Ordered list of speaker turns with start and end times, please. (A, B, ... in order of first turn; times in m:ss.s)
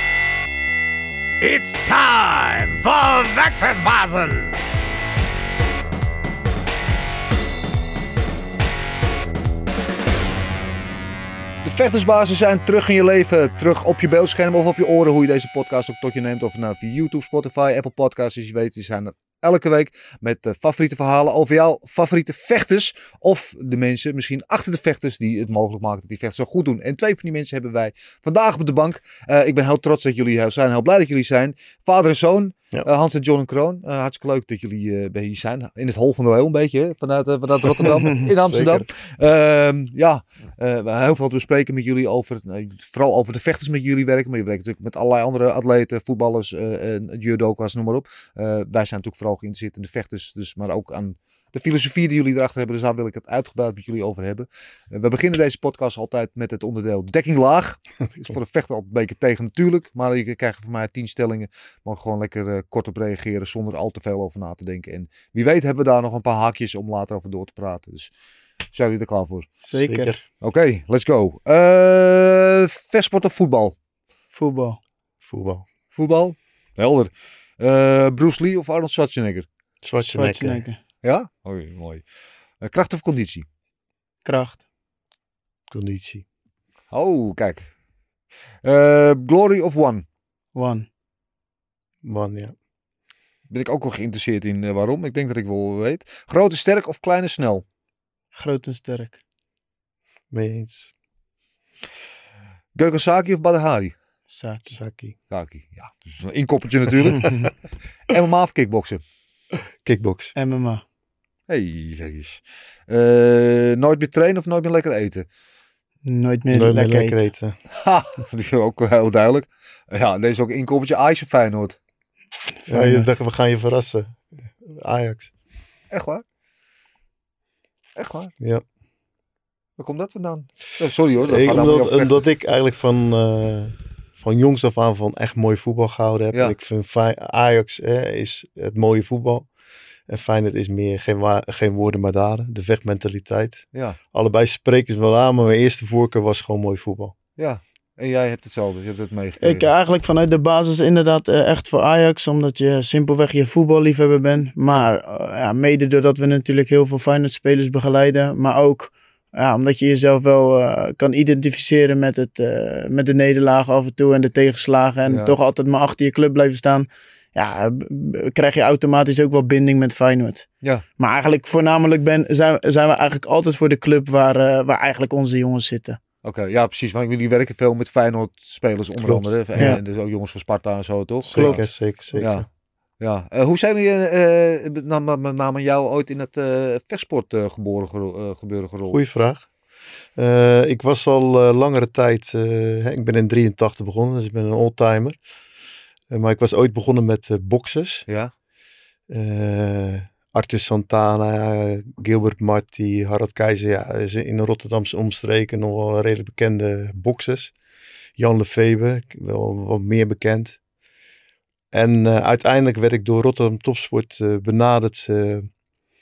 0:01.4-0:04.5 A
0:11.6-1:08.1 B
0:38.4-0:38.8 C
1:08.7-1:09.5 B
1:09.6-1:10.1 D
1:09.7-1:10.2 C
1:10.4-1:13.7 B
1:14.3-1:14.8 D
1:15.2-1:15.6 C
1:15.9-1:19.5 B
1:19.8-1:20.6 C
1:20.0-1:20.8 D
1:21.0-1:22.0 B
1:22.6-1:23.4 B
1:24.2-1:24.6 D
1:25.7-1:26.2 C
1:26.9-1:27.7 B
1:28.6-1:30.0 B
1:30.5-1:30.8 D
1:32.0-1:32.5 C
1:33.5-1:37.6 B
1:38.3-1:39.2 D
1:40.3-1:40.9 C
1:42.7-1:43.9 B
1:44.3-1:44.7 D
1:44.7-1:45.2 C
1:45.3-1:47.5 B
1:47.1-1:47.5 D
1:48.1-1:49.0 B
1:49.8-1:50.3 C
1:50.4-1:50.8 D
1:51.5-1:55.2 B
1:56.0-1:57.2 D
1:56.5-1:57.6 C
1:57.7-2:01.8 B
2:02.6-2:03.1 D
2:02.7-2:05.3 C
2:05.9-2:06.2 B
2:08.0-2:08.3 B
2:09.8-2:12.2 B
2:11.2-2:19.5 C
2:20.1-2:27.1 C
2:27.4-2:29.7 B
2:29.4-2:56.0 D
2:45.0-2:45.3 B
2:56.2-3:01.6 B
2:59.0-2:59.8 C
3:01.3-3:01.6 D
3:01.3-3:02.4 C
3:02.2-3:02.4 B
3:03.0-3:09.0 B
3:08.9-3:09.5 C
3:10.2-3:15.2 C
3:16.1-3:18.0 C
3:19.1-3:27.5 C
3:28.2-3:30.6 C
3:31.7-3:35.5 C